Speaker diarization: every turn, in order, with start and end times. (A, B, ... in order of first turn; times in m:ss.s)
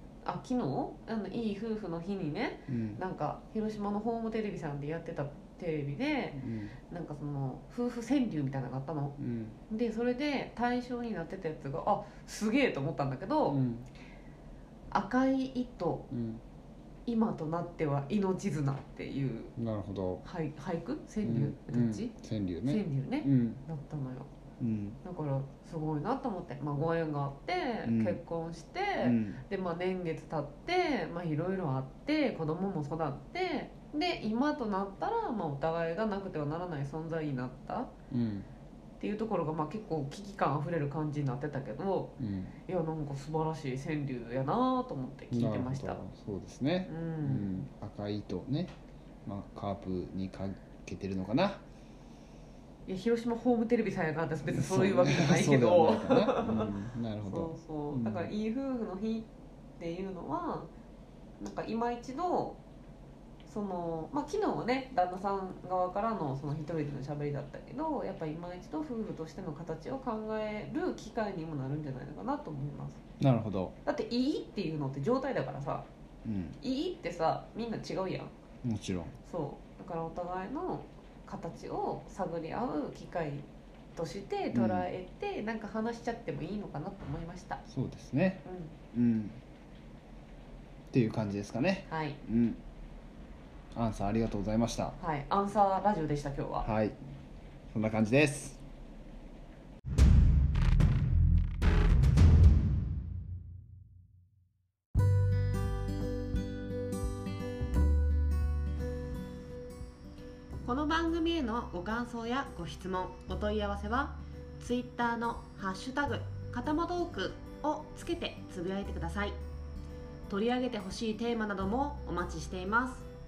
0:00.2-0:09.2 A
0:02.7-0:03.0 B
0:06.3-0:06.8 B
0:09.2-0:09.6 B
0:09.7-0:13.6 A
0:13.5-0:13.9 B
0:14.9-0:16.1 A
0:16.1-0:16.4 B
0:17.0-0:19.5 A
0:19.6-0:20.2 B
0:20.2-0:22.1 A
0:21.2-0:23.6 B
0:22.6-0:24.3 A
0:24.6-0:25.0 B
0:25.0-0:37.9 A
0:27.8-0:28.2 B
0:29.0-0:29.4 B
0:38.1-0:38.5 B
0:39.0-0:42.1 A
0:42.2-0:42.6 B
0:42.6-0:46.0 A
0:45.3-0:48.7 B
0:46.8-0:47.6 A
0:49.2-0:51.6 B
0:52.8-0:56.7 A
0:54.4-0:58.3 B
0:57.2-1:00.7 A
1:01.4-1:02.6 A
1:03.4-1:13.0 A
1:13.2-1:13.8 B
1:13.8-1:15.9 A
1:16.2-1:16.6 B
1:16.6-1:18.3 A
1:18.6-1:19.1 B
1:19.2-1:27.6 A
1:24.5-1:24.9 B
1:27.7-1:29.4 B
1:28.4-1:28.8 A
1:30.9-1:32.6 B
1:31.9-1:32.2 A
1:33.7-1:35.0 B
1:35.0-1:36.7 A
1:36.6-1:37.0 B
1:37.7-1:38.6 B
1:50.6-1:59.4 C
2:00.3-2:03.1 C